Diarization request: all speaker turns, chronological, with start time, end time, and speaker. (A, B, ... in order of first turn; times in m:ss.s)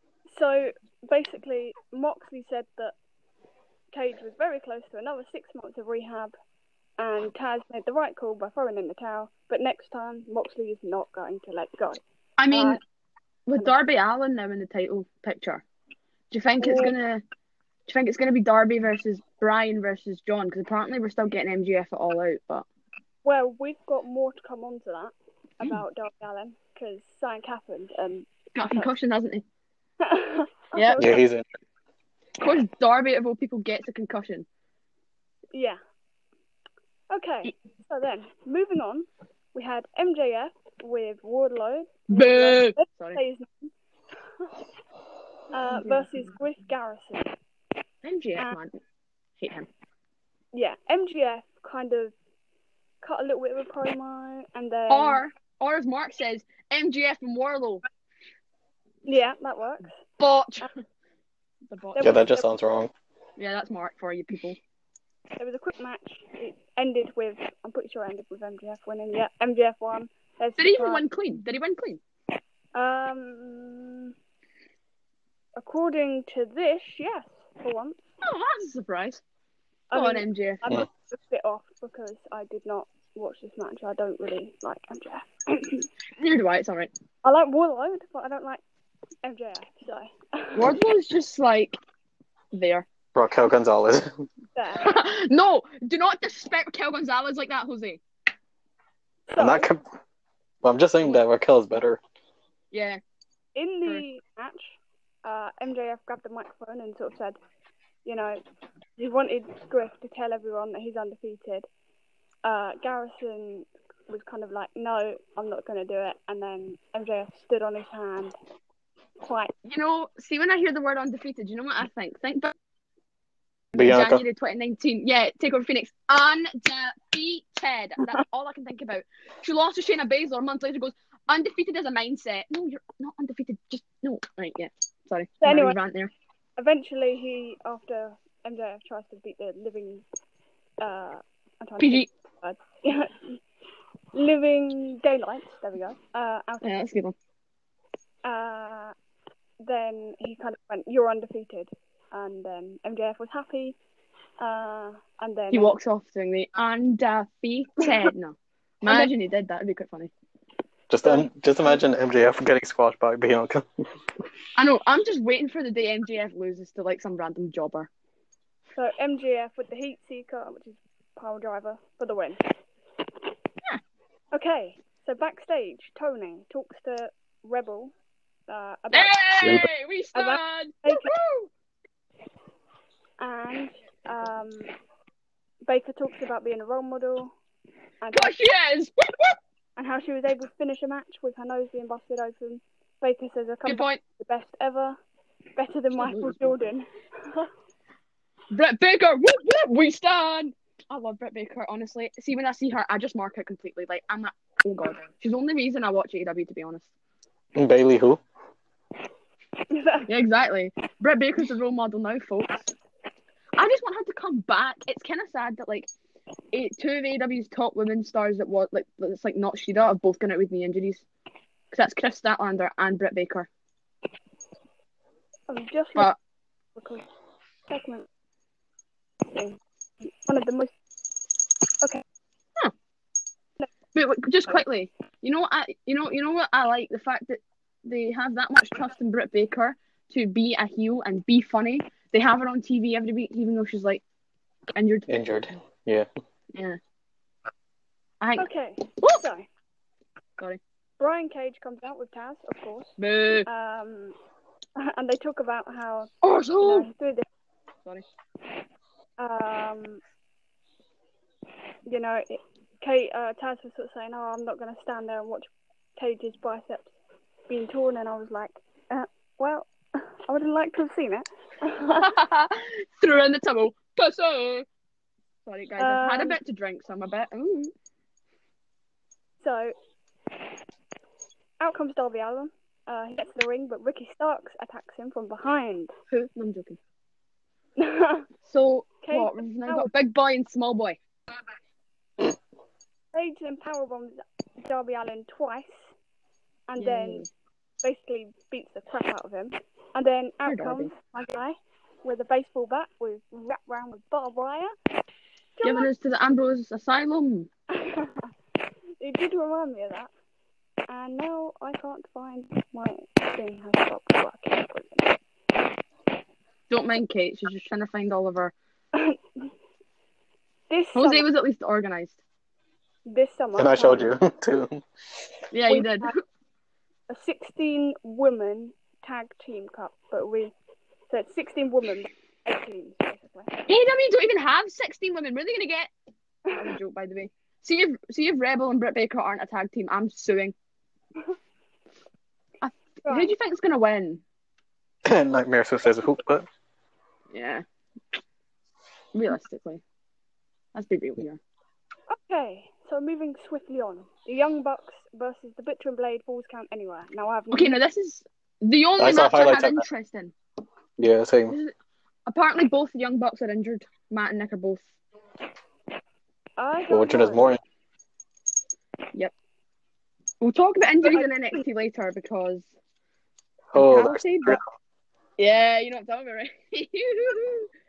0:00.3-0:02.9 A
0:03.9-0:06.3 A
0:07.0-0:12.8 A
0:12.4-0:12.8 B
0:13.5-0:15.6 B
0:16.3-0:17.2 B
0:16.6-0:16.9 A
0:17.9-0:22.7 B
0:23.2-0:28.9 A
0:28.5-0:29.4 B
0:30.0-0:31.2 A
0:30.8-0:31.0 B
0:31.0-0:31.5 C
0:32.4-0:34.5 B
0:35.5-0:35.8 A
0:37.1-0:43.7 A
0:42.1-0:43.2 B
0:45.5-0:47.3 A
0:45.7-0:46.1 B
0:48.0-0:48.8 B
0:49.4-0:49.7 B
0:50.5-0:52.1 A
0:53.0-0:55.2 A
0:54.9-0:57.8 B
0:59.0-1:00.0 A
1:00.2-1:00.8 B
1:01.7-1:02.2 B
1:02.0-1:02.5 A
1:02.0-1:02.9 C
1:03.4-1:04.6 B
1:05.4-1:11.0 A
1:10.6-1:12.0 B
1:12.7-1:14.1 A
1:15.6-1:18.0 A
1:18.2-1:19.2 B
1:19.9-1:25.9 A
1:19.9-1:20.6 B
1:26.2-1:26.9 B
1:27.2-1:28.6 A
1:29.2-1:30.8 A
1:30.6-1:31.8 B
1:32.5-1:32.9 B
1:33.2-1:34.2 C
1:34.6-1:35.0 A
1:34.8-1:38.0 B
1:39.3-1:39.7 A
1:39.4-1:39.8 C
1:40.6-1:42.0 C
1:42.7-1:43.0 B
1:43.6-1:47.4 A
1:48.0-1:48.4 A
1:49.0-1:51.7 A
1:52.4-1:58.4 A
1:59.2-1:59.5 A
1:59.6-2:02.5 B
2:03.7-2:16.1 B
2:03.8-2:04.2 C
2:15.4-2:15.8 A
2:16.6-2:20.0 A
2:20.8-2:23.4 A
2:21.8-2:22.1 B
2:24.1-2:26.8 A
2:26.6-2:27.2 B
2:28.2-2:29.0 A
2:29.6-2:33.8 A
2:34.4-2:35.8 A
2:35.5-2:40.1 B
2:38.8-2:39.1 A
2:40.9-2:43.7 C
2:41.0-2:41.3 A
2:44.6-2:47.9 B
2:48.8-2:52.4 A
2:54.3-2:57.9 A
2:58.5-2:59.2 A
2:58.9-3:01.5 B
2:59.4-2:59.7 C
3:00.2-3:01.1 A
3:03.2-3:04.7 A
3:05.6-3:07.3 A
3:08.0-3:08.3 A
3:08.1-3:09.4 B
3:09.8-3:15.0 A
3:13.7-3:14.0 B
3:15.6-3:17.5 A
3:16.0-3:16.6 B
3:18.5-3:26.9 B
3:27.6-3:28.2 C
3:29.7-3:30.1 A
3:30.0-3:32.7 B
3:33.6-3:35.9 B
3:36.5-3:41.0 B
3:41.7-3:43.5 B
3:45.5-3:46.1 A
3:46.8-3:47.0 A
3:47.7-3:48.1 A
3:49.2-3:50.7 A
3:54.0-4:04.0 B
4:04.8-4:05.1 B
4:05.1-4:06.1 C
4:06.5-4:06.8 B
4:08.2-4:09.2 B
4:08.4-4:09.5 A
4:11.0-4:14.2 A
4:13.0-4:13.5 B
4:14.8-4:17.2 A
4:16.2-4:16.9 B
4:19.2-4:20.0 A
4:21.9-4:26.9 A
4:27.5-4:29.7 A
4:30.3-4:32.1 A
4:31.9-4:34.7 B
4:35.5-4:37.7 B
4:35.8-4:36.4 A
4:39.4-4:39.8 A
4:41.6-4:45.9 A
4:46.1-4:46.8 B
4:47.8-4:48.3 A
4:48.5-4:51.0 B
4:49.0-4:49.9 A
4:53.1-4:55.9 A
4:56.7-4:57.2 A
4:56.8-4:57.3 B
4:57.8-5:04.7 A
5:00.5-5:00.9 B
5:05.6-5:05.9 A
5:05.6-5:07.5 B
5:07.8-5:08.3 A
5:09.0-5:10.1 A
5:10.9-5:15.2 A
5:16.7-5:18.5 B
5:20.7-5:21.3 A
5:21.0-5:22.2 B
5:23.1-5:24.1 A
5:23.6-5:24.8 C
5:25.5-5:26.1 B
5:25.7-5:26.1 A
5:27.1-5:30.5 A
5:31.1-5:33.6 A
5:33.7-5:35.9 B
5:36.5-5:40.5 B
5:42.6-5:44.2 B
5:43.0-5:43.3 A
5:45.0-5:46.5 C
5:47.3-5:47.6 B
5:49.1-5:49.8 B
5:50.8-5:51.4 B
5:52.1-5:57.8 A
5:57.5-6:00.3 B
5:59.0-5:59.9 C
6:01.0-6:01.6 C
6:02.3-6:04.8 B
6:06.6-6:07.5 A
6:06.9-6:07.6 C
6:10.4-6:12.7 B
6:11.0-6:11.6 A
6:13.7-6:14.6 C
6:13.8-6:14.6 B
6:15.4-6:17.7 B